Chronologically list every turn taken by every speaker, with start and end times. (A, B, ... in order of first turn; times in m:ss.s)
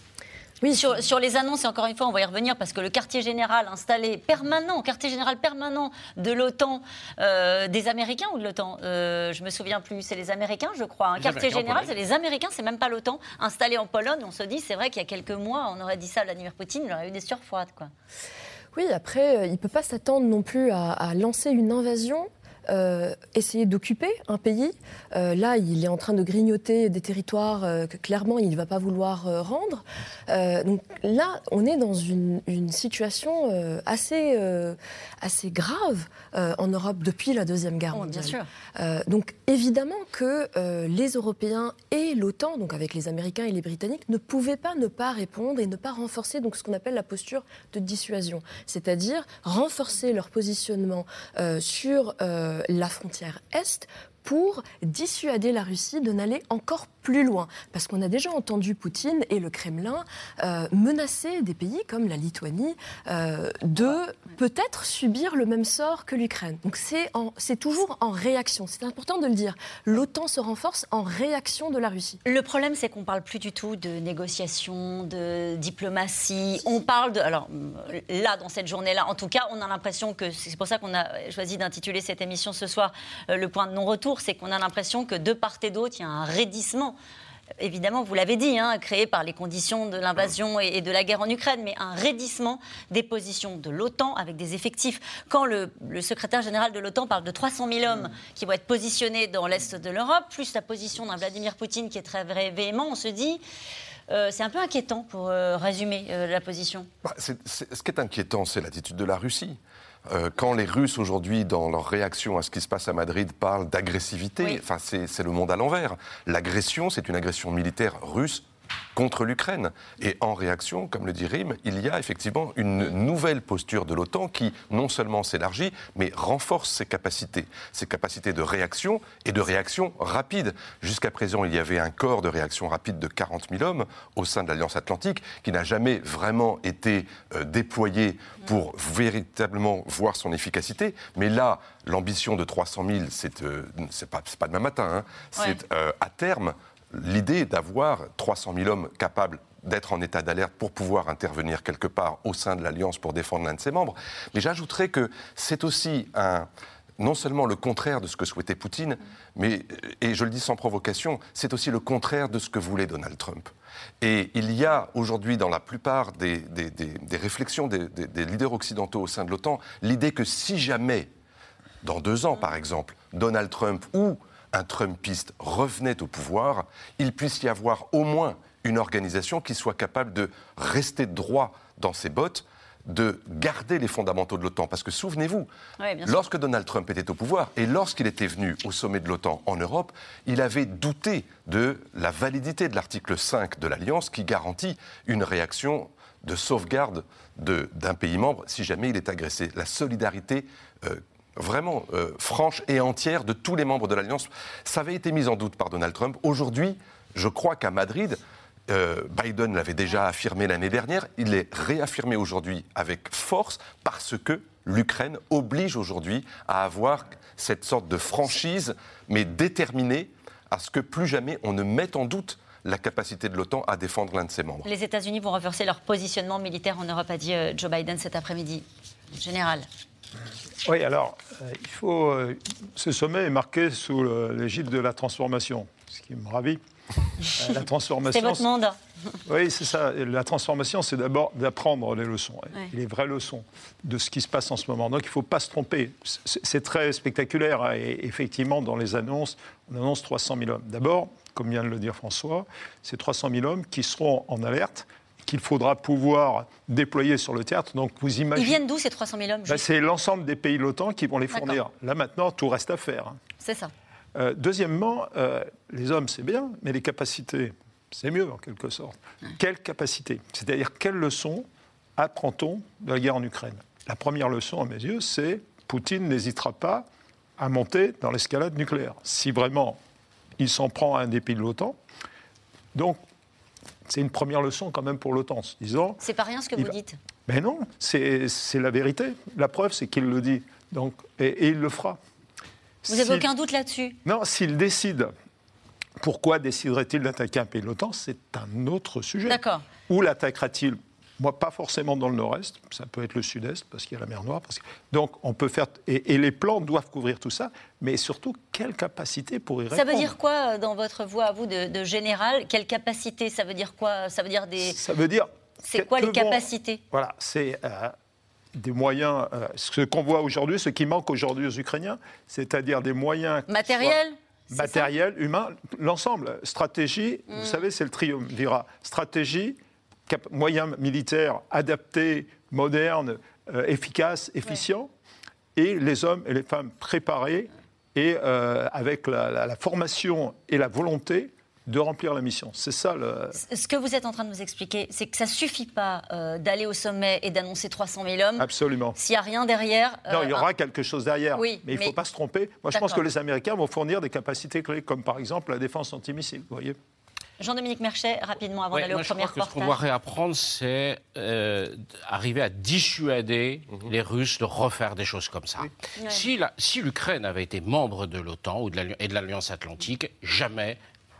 0:00.7-0:17.9 A
0:11.2-0:11.9 B
0:18.7-1:12.2 C
0:37.9-0:38.5 A
1:12.2-1:27.0 A
1:27.6-1:43.4 A
1:44.1-1:46.9 A
1:47.0-2:36.5 D
2:37.0-2:51.1 D
2:51.8-3:05.5 D
3:05.8-3:06.2 A
3:06.0-3:44.7 D
3:44.6-3:49.7 A
3:50.6-3:56.6 E
3:57.3-3:58.5 E
3:58.1-3:58.8 A
3:59.2-4:18.6 E
4:18.3-4:19.6 A
4:19.4-4:23.2 E
4:21.3-4:21.6 A
4:23.4-4:23.7 A
4:24.1-4:36.8 E
4:37.4-4:39.8 E
4:40.4-4:41.8 E
4:42.7-4:43.0 E
4:43.9-4:46.0 E
4:46.0-4:47.0 A
4:47.3-4:52.0 E
4:52.8-4:53.3 E
4:52.9-4:54.0 A
4:54.0-4:55.1 E
4:56.0-5:10.1 E
4:59.3-4:59.6 A
5:09.7-5:14.8 A
5:14.6-5:17.9 E
5:15.6-5:16.8 A
5:18.5-5:29.6 E
5:23.5-5:24.9 A
5:27.3-5:27.6 A
5:30.1-5:34.9 E
5:35.5-5:43.4 E
5:43.3-5:50.5 A
5:48.4-5:49.0 E
5:50.1-5:56.8 E
5:51.3-5:51.9 A
5:52.7-5:53.0 A
5:57.4-5:59.8 A
5:58.7-6:10.8 B
6:06.0-6:06.2 A